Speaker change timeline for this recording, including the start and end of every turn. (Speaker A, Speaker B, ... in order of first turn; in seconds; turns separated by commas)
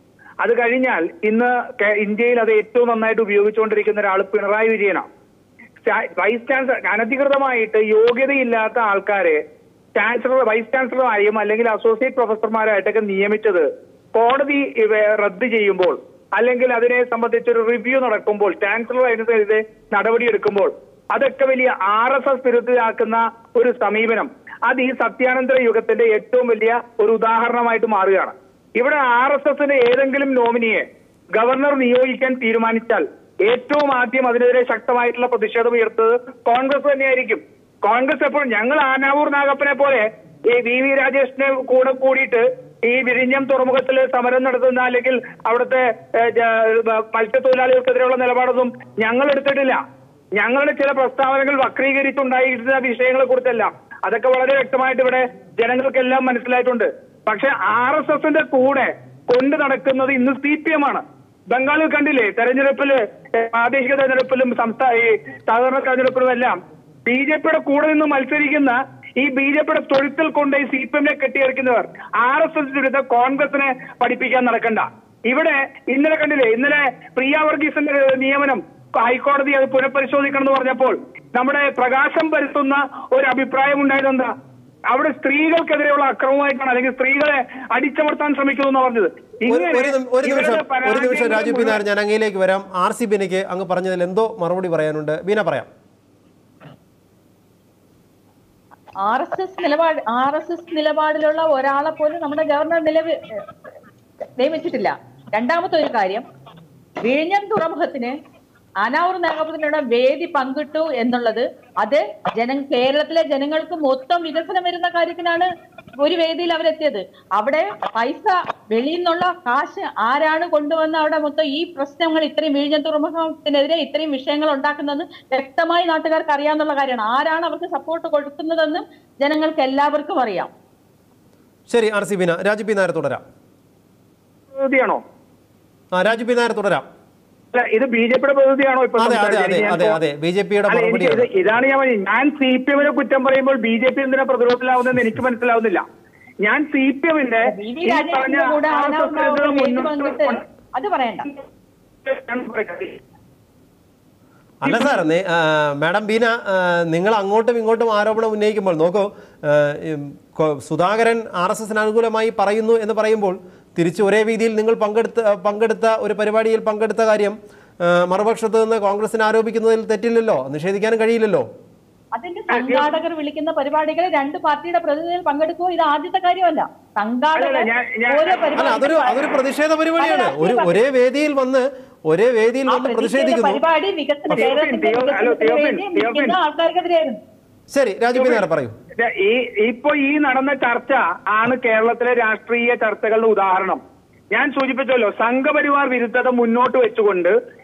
Speaker A: 0.4-5.1, Speaker A: 5.8-9.4, Speaker A: 10.0-30.8, Speaker A: 31.4-49.8, Speaker A: 50.4-84.3, Speaker A: 84.9-91.8, Speaker B: 89.5-95.7, Speaker C: 99.0-103.4, Speaker C: 104.4-106.2, Speaker C: 107.0-108.2, Speaker C: 108.8-115.5, Speaker C: 116.0-130.5, Speaker B: 131.7-133.2, Speaker A: 134.5-135.0, Speaker B: 135.9-136.8, Speaker A: 137.5-140.0, Speaker B: 139.0-141.3, Speaker A: 140.7-145.8, Speaker A: 146.4-150.4, Speaker C: 147.5-151.3, Speaker A: 152.1-153.0, Speaker B: 154.6-171.5, Speaker A: 154.6-155.1, Speaker C: 172.1-179.2, Speaker A: 172.5-172.9, Speaker A: 177.4-178.4, Speaker B: 178.6-183.6, Speaker C: 180.0-180.8, Speaker C: 182.7-187.2, Speaker A: 184.4-186.4, Speaker B: 187.7-188.7, Speaker A: 188.1-188.5, Speaker A: 189.0-193.8, Speaker A: 194.3-197.3